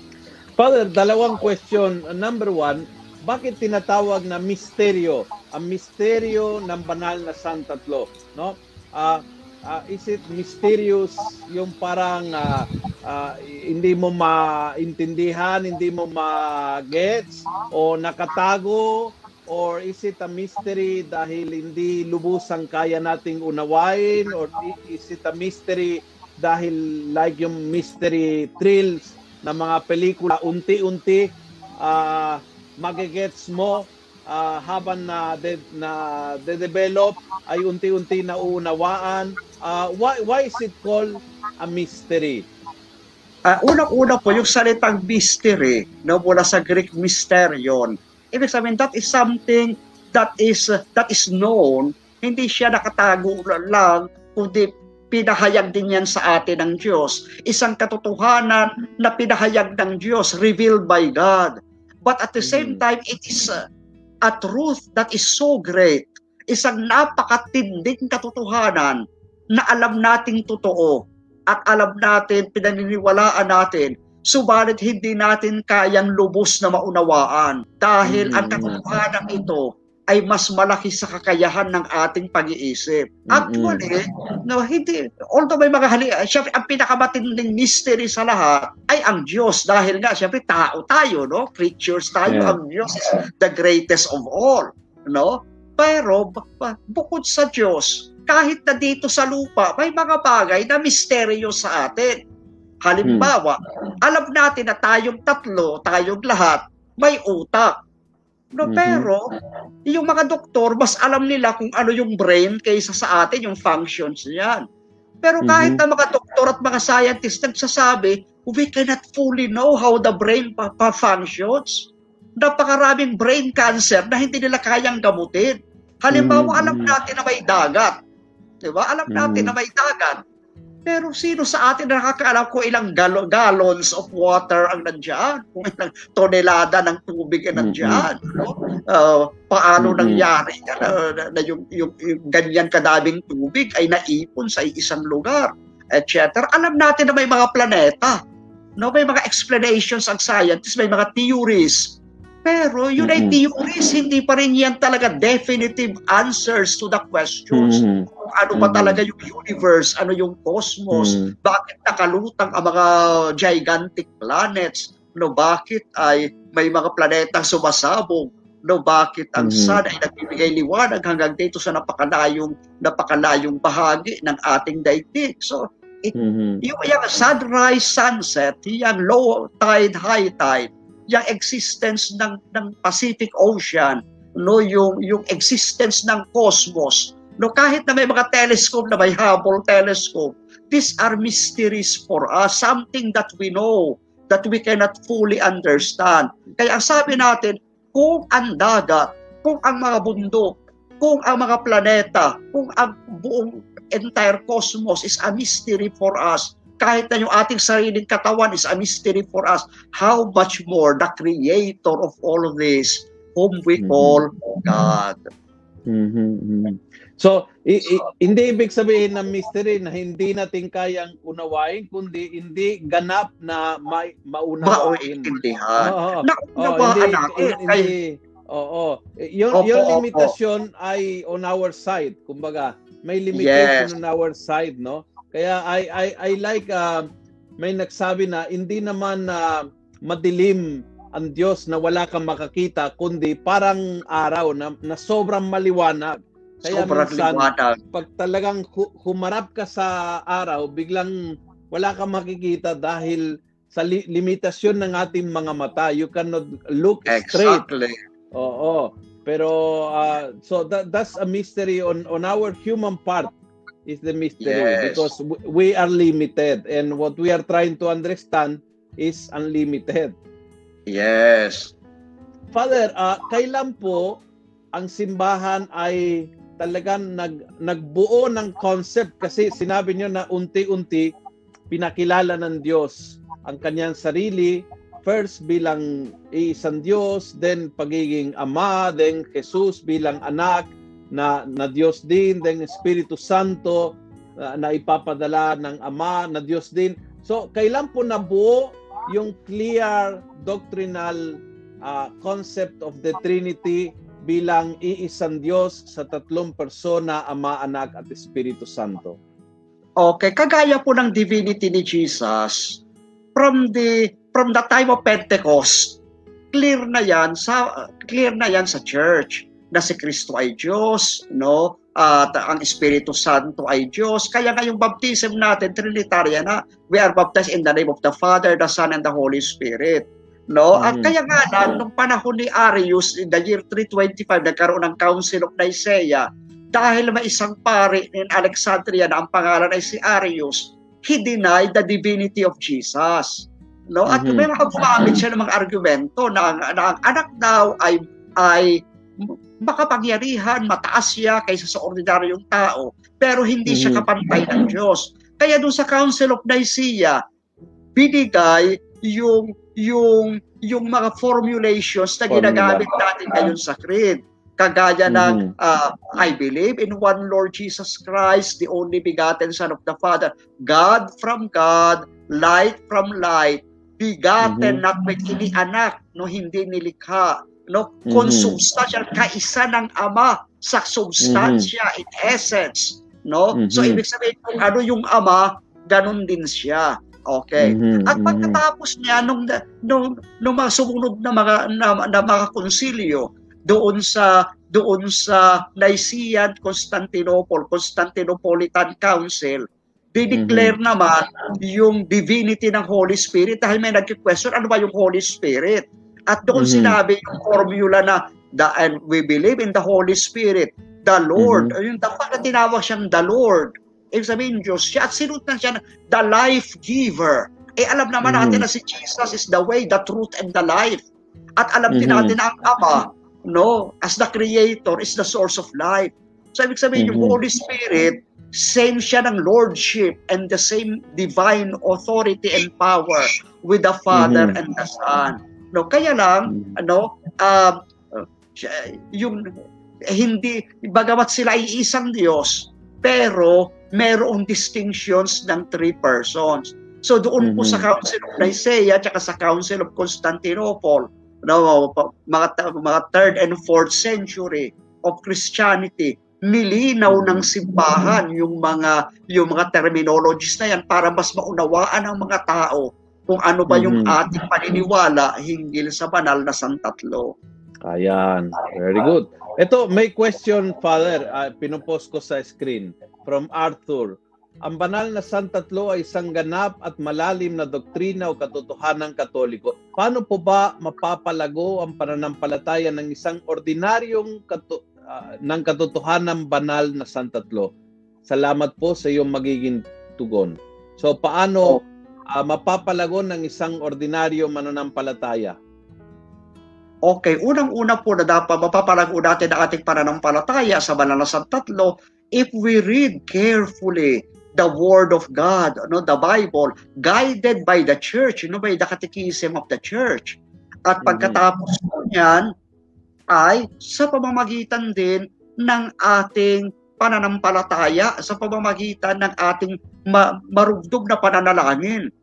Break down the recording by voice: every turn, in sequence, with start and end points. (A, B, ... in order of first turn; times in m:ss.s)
0:00.6-0:31.3 A
0:31.8-0:42.5 A
0:43.5-1:03.6 B
1:02.4-1:02.8 A
1:04.2-1:09.0 B
1:09.6-1:42.2 B
1:18.0-1:18.8 A
1:23.3-1:23.8 A
1:32.3-1:32.6 A
1:42.8-1:47.7 B
1:43.0-1:43.3 A
1:48.6-1:49.2 B
1:48.6-1:49.1 A
1:49.9-1:54.6 B
1:55.2-2:01.9 B
1:55.4-1:55.8 A
2:02.4-2:07.9 B
2:06.1-2:07.0 A
2:08.7-2:10.2 B
2:09.1-2:09.6 A
2:10.9-2:28.2 B
2:17.6-2:18.1 A
2:19.8-2:20.3 A
2:28.8-3:35.3 B
2:33.0-2:33.4 A
2:37.5-2:39.0 A
2:40.9-2:41.4 A
2:49.4-2:49.8 A
2:56.2-2:56.6 A
3:33.8-3:34.2 A
3:35.9-3:57.1 A
3:44.6-3:47.9 B
3:49.5-3:50.3 B
3:53.3-3:53.9 B
3:57.6-4:17.6 A
4:06.6-4:07.8 B
4:17.1-4:18.0 B
4:18.3-4:23.3 A
4:23.9-4:30.2 A
4:24.4-4:25.1 B
4:30.9-4:31.7 B
4:32.5-4:34.2 A
4:34.7-4:41.1 A
4:41.7-5:09.2 A
5:10.0-5:12.8 B
5:13.4-5:16.0 B
5:16.5-5:57.2 B
5:30.7-5:31.1 A
5:44.1-5:44.5 A
5:53.7-5:54.1 A
5:58.0-7:01.0 B
6:02.3-6:02.9 A
6:05.1-6:05.5 A
6:14.4-6:14.8 A
6:18.1-6:18.6 A
6:21.2-6:21.7 A
6:23.5-6:24.0 A
6:27.6-6:28.6 A
6:40.3-6:40.8 A
6:46.6-6:47.0 A
6:51.4-6:51.8 A
6:58.2-6:58.7 A
7:01.6-7:19.5 B
7:01.9-7:02.4 A
7:07.0-7:07.4 A
7:14.1-7:14.6 A
7:16.5-7:16.8 A
7:20.1-7:47.4 B
7:27.4-7:27.9 A
7:37.1-7:37.5 A
7:43.7-7:44.2 A
7:47.9-8:07.7 A
8:08.3-8:11.8 A
8:12.3-8:15.6 A
8:17.1-8:32.5 B
8:31.0-8:31.4 A
8:33.3-8:42.0 B